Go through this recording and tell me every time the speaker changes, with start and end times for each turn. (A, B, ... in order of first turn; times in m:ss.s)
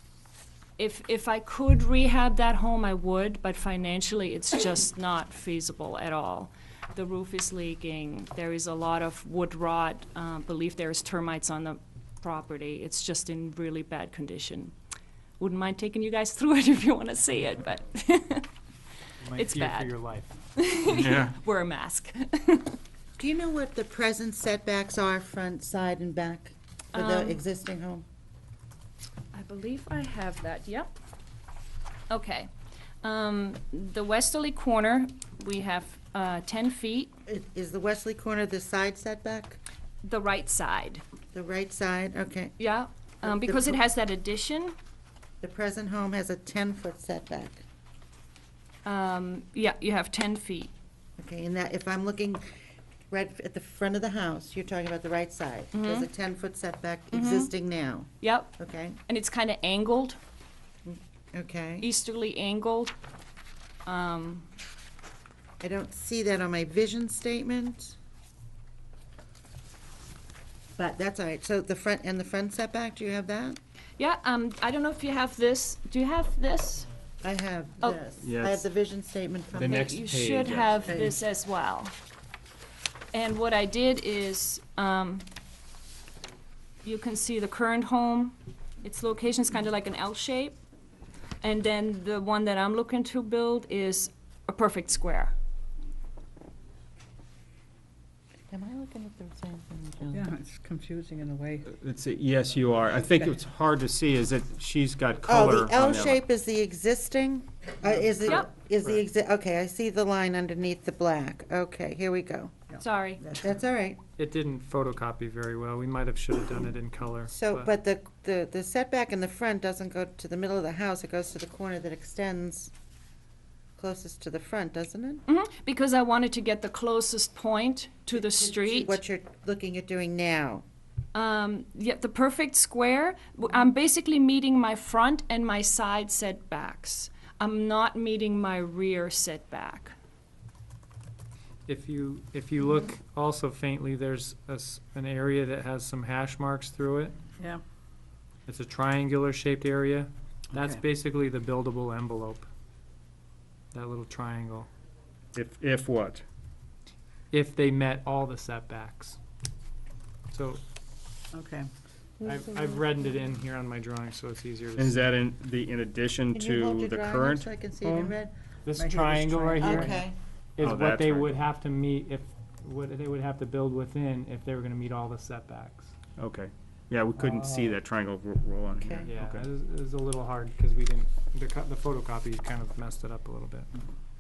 0:00.8-0:14.7 A
0:15.4-0:18.5 A
0:19.2-0:20.3 B
0:19.4-0:20.0 A
0:20.6-0:22.8 A
0:20.9-0:21.3 C
0:23.2-0:28.0 D
0:26.9-0:27.4 A
0:29.3-0:30.9 A
0:32.1-0:32.5 A
0:33.0-0:37.1 A
0:37.3-0:39.6 D
0:40.0-0:41.0 A
0:41.3-0:42.6 D
0:42.6-0:44.8 A
0:43.2-0:43.8 D
0:45.4-0:47.6 D
0:48.8-0:50.7 A
0:51.2-0:52.5 D
0:53.1-0:59.0 D
0:55.7-0:56.1 A
0:57.1-0:57.5 A
0:58.2-0:58.5 A
0:59.1-1:00.2 A
1:00.9-1:01.9 D
1:01.8-1:03.0 A
1:03.9-1:04.5 A
1:05.6-1:08.0 D
1:10.8-1:13.6 D
1:14.0-1:16.9 A
1:17.2-1:20.0 D
1:18.2-1:18.7 C
1:19.5-1:20.9 C
1:19.7-1:22.0 A
1:20.9-1:21.2 E
1:23.1-1:25.3 A
1:26.8-1:30.6 A
1:31.4-1:35.3 A
1:38.5-1:40.3 D
1:40.1-1:41.7 E
1:41.7-1:46.2 C
1:45.3-1:52.6 D
1:52.7-1:53.5 E
1:52.8-1:53.2 A
1:53.3-1:54.0 D
1:54.2-1:57.7 B
1:57.3-2:02.7 D
2:03.8-2:05.2 D
2:05.3-2:09.0 A
2:08.2-2:10.6 D
2:11.1-2:20.0 A
2:21.7-2:27.2 B
2:28.5-2:32.5 B
2:30.5-2:30.8 E
2:33.7-2:34.7 B
2:35.4-2:36.2 C
2:37.3-2:39.2 B
2:40.3-2:40.6 B
2:41.3-2:41.7 E
2:42.2-2:45.0 B
2:44.8-2:47.5 C
2:46.3-2:48.3 D
2:47.9-2:48.2 B
2:48.7-2:55.9 B
2:48.7-2:50.0 E
2:49.6-2:50.2 D
2:50.6-2:51.4 C
2:56.2-2:59.5 C
2:57.2-2:57.8 E
2:58.8-2:59.1 D
2:59.0-3:03.7 B